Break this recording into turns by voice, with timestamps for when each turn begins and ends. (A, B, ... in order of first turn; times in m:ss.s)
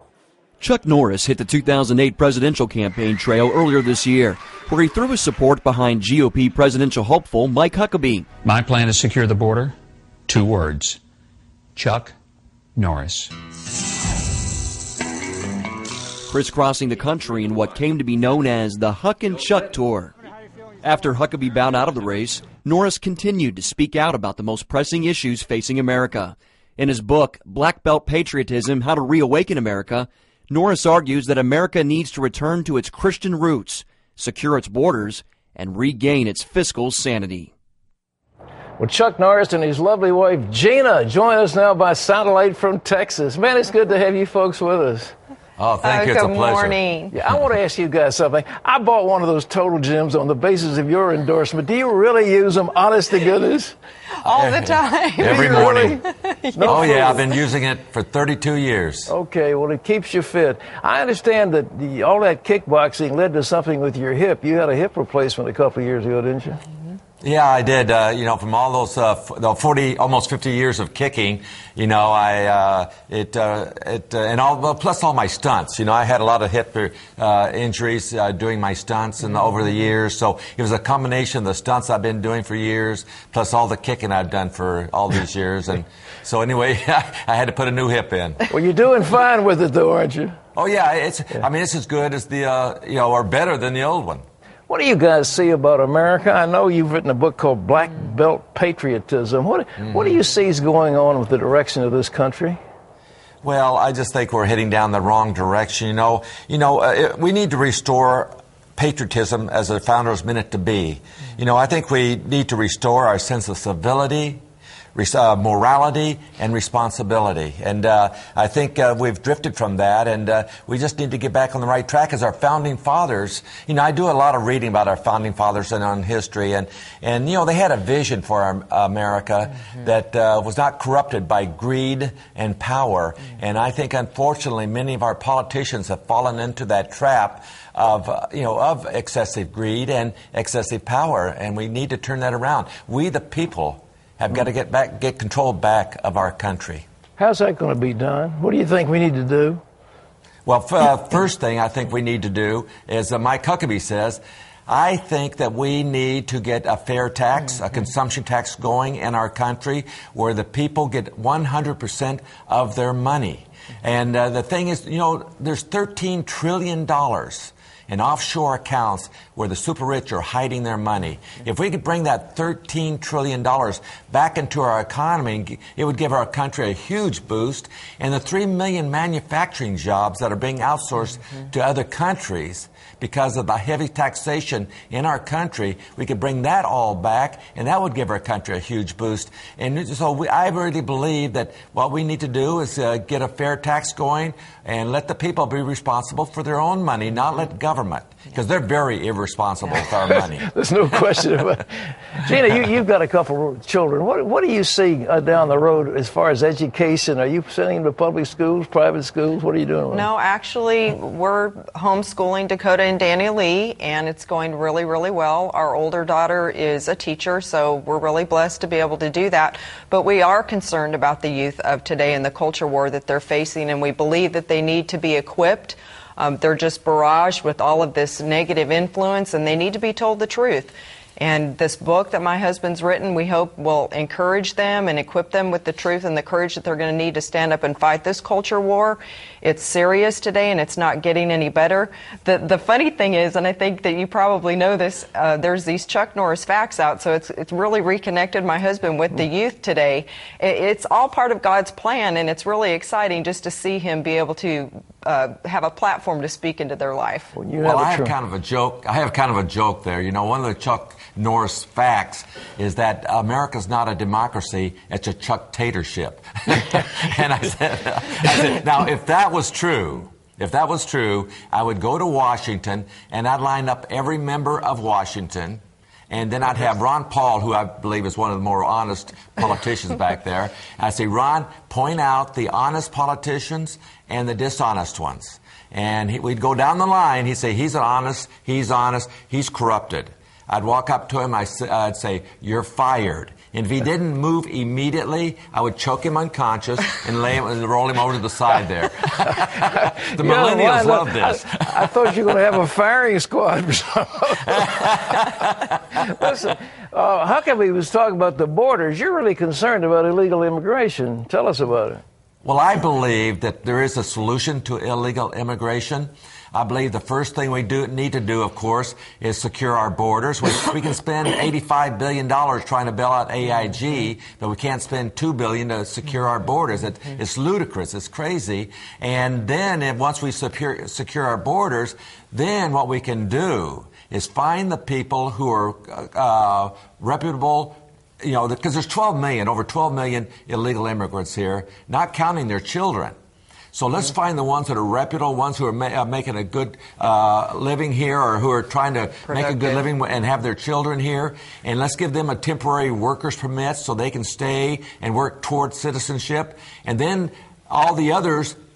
0:00.6-0:08.3 A
0:08.4-0:09.7 B
0:10.3-0:11.0 B
0:11.8-0:12.1 B
0:12.8-0:13.3 B
0:16.3-0:20.1 A
0:20.8-0:37.5 A
0:38.8-0:45.1 C
0:45.6-0:46.8 D
0:45.8-0:47.1 E
0:47.1-0:53.8 C
0:54.2-0:57.2 E
0:54.2-0:56.0 D
0:55.2-0:56.0 C
0:56.5-0:57.2 C
0:56.6-0:59.1 D
0:59.1-1:06.6 C
1:07.2-1:28.4 D
1:28.5-1:30.4 C
1:30.5-1:34.2 D
1:34.7-1:42.6 C
1:39.8-1:40.1 D
1:43.4-1:54.4 D
1:54.9-2:26.8 D
2:27.2-2:29.6 C
2:30.4-3:20.5 D
3:19.8-3:30.1 C
3:29.9-4:17.3 E
4:17.3-4:18.1 C
4:17.6-5:02.3 D
5:00.2-5:05.3 C
5:04.6-5:05.6 D
5:05.9-5:12.0 C
5:12.4-5:43.1 D
5:43.7-5:58.6 D
5:49.2-5:49.8 E